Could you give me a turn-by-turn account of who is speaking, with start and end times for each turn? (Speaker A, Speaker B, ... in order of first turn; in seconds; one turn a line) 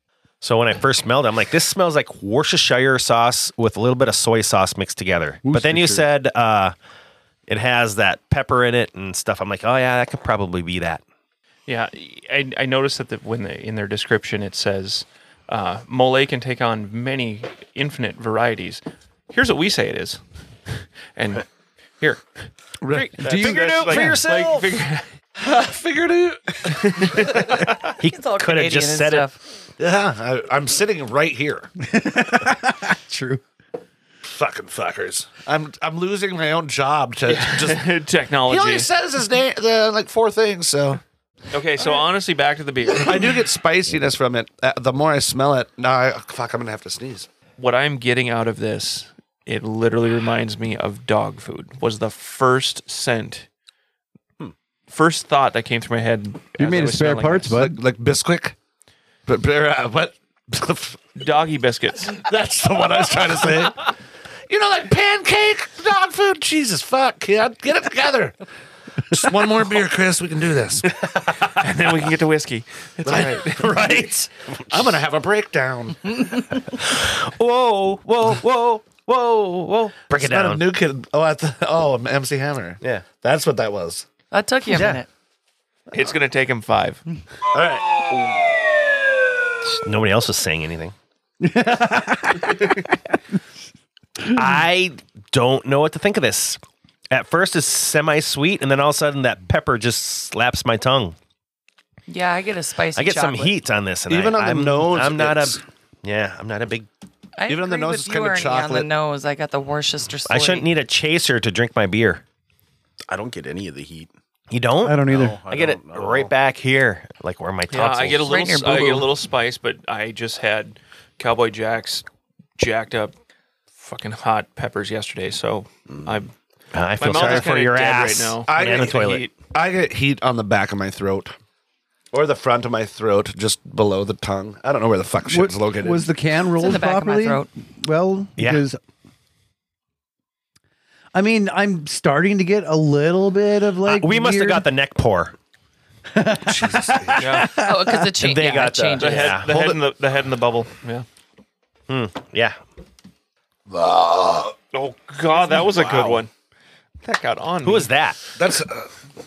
Speaker A: 0.4-6.8
Speaker B: 5.4-6.1
Speaker A: 7.5-11.0
Speaker C: 11.7-20.2
Speaker C: 21.1-21.5
Speaker C: 22.0-22.2
Speaker D: 22.8-23.1
Speaker A: 22.9-24.8
Speaker C: 23.2-25.1
Speaker B: 23.2-24.2
Speaker D: 25.4-27.4
Speaker C: 26.7-27.8
Speaker A: 28.0-29.3
Speaker E: 28.1-29.4
Speaker D: 29.8-31.7
Speaker B: 31.8-33.4
Speaker D: 34.2-37.9
Speaker C: 37.3-38.9
Speaker D: 38.5-41.0
Speaker C: 41.5-43.4
Speaker D: 42.9-47.3
Speaker C: 47.6-53.5
Speaker C: 54.9-57.6
Speaker B: 56.6-57.8
Speaker D: 57.5-58.6
Speaker D: 59.3-61.0
Speaker C: 61.2-62.2
Speaker D: 62.2-63.9
Speaker D: 64.5-68.4
Speaker D: 69.1-70.9
Speaker C: 70.8-73.8
Speaker D: 73.0-76.1
Speaker A: 73.1-74.2
Speaker A: 76.7-80.7
Speaker D: 80.1-84.0
Speaker E: 84.3-85.1
Speaker A: 84.7-85.0
Speaker C: 85.9-87.0
Speaker D: 87.5-88.7
Speaker A: 89.6-90.9
Speaker B: 91.4-93.2
Speaker A: 94.3-101.2
Speaker E: 102.1-103.5
Speaker A: 102.9-106.9
Speaker D: 104.1-105.6
Speaker E: 107.4-110.7
Speaker D: 107.5-108.9
Speaker A: 110.3-112.2
Speaker F: 113.1-114.1
Speaker A: 114.5-118.4
Speaker B: 114.8-115.4
Speaker F: 115.1-116.3
Speaker C: 117.7-122.0
Speaker E: 118.3-119.1
Speaker C: 122.6-123.1
Speaker C: 123.8-126.3
Speaker A: 126.7-129.3
Speaker C: 127.0-129.3
Speaker D: 127.0-127.5
Speaker D: 128.5-131.4
Speaker D: 132.1-136.1
Speaker B: 135.3-138.8
Speaker E: 136.6-137.5
Speaker A: 138.4-138.6
Speaker B: 141.1-144.7
Speaker A: 143.8-145.3
Speaker B: 146.1-148.1
Speaker D: 146.4-147.3
Speaker C: 147.2-147.6
Speaker E: 147.5-149.4
Speaker A: 148.2-149.6
Speaker C: 149.0-151.1
Speaker D: 149.5-149.8
Speaker A: 151.9-152.6
Speaker D: 153.7-154.5
Speaker C: 154.7-156.3
Speaker D: 155.4-156.2
Speaker C: 157.0-157.9
Speaker A: 157.6-158.2
Speaker D: 158.4-158.9